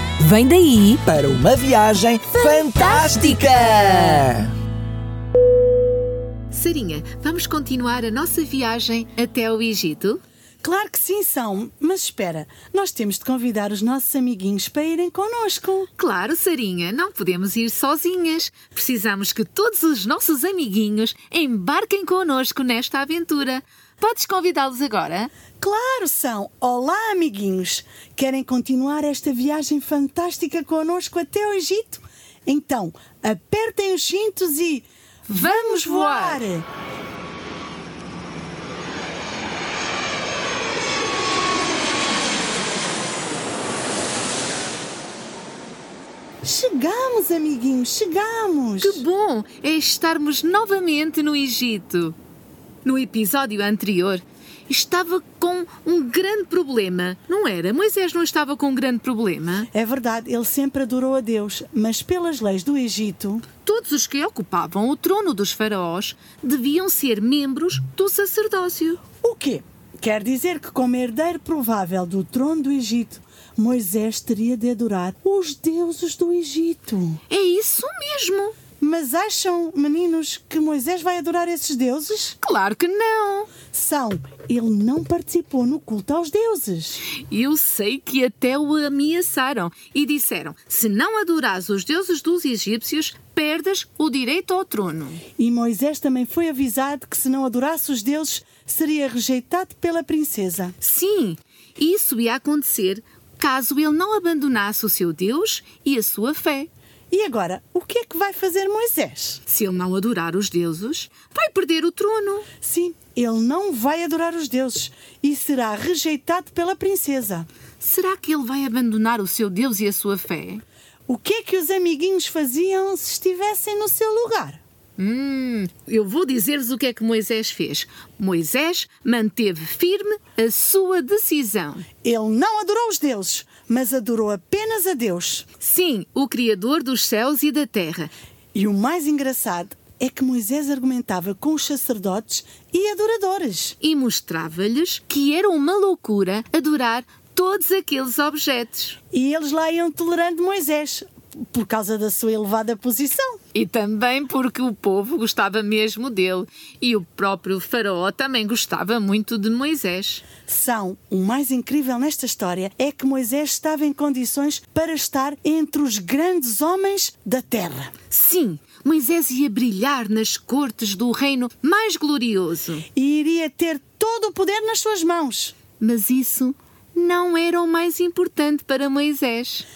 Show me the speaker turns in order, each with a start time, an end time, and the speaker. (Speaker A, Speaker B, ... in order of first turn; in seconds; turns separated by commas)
Speaker A: 0.2-1.0, Speaker B: 1.1-4.5, Speaker A: 2.3-4.2, Speaker C: 6.5-10.2, Speaker D: 10.6-15.9, Speaker C: 16.0-25.3, Speaker D: 25.6-36.6, Speaker C: 35.3-36.4, Speaker D: 46.4-49.0, Speaker C: 48.8-52.1, Speaker C: 52.8-59.7, Speaker D: 59.7-63.4, Speaker C: 63.6-69.0, Speaker D: 69.2-77.2, Speaker C: 77.3-78.5, Speaker D: 78.8-82.3, Speaker C: 82.4-83.5, Speaker D: 83.7-87.0, Speaker C: 87.2-95.2, Speaker D: 95.4-100.7, Speaker C: 100.8-106.7, Speaker D: 107.1-109.4, Speaker C: 109.5-112.5, Speaker D: 112.6-117.5, Speaker C: 117.8-120.6, Speaker D: 121.1-124.6, Speaker C: 125.0-131.8, Speaker D: 132.0-135.4, Speaker C: 135.6-138.1, Speaker D: 138.5-143.8, Speaker C: 143.8-149.0, Speaker D: 149.1-153.4, Speaker C: 153.5-160.2, Speaker D: 160.4-167.9, Speaker C: 168.1-172.8, Speaker D: 172.9-175.5, Speaker C: 175.8-179.7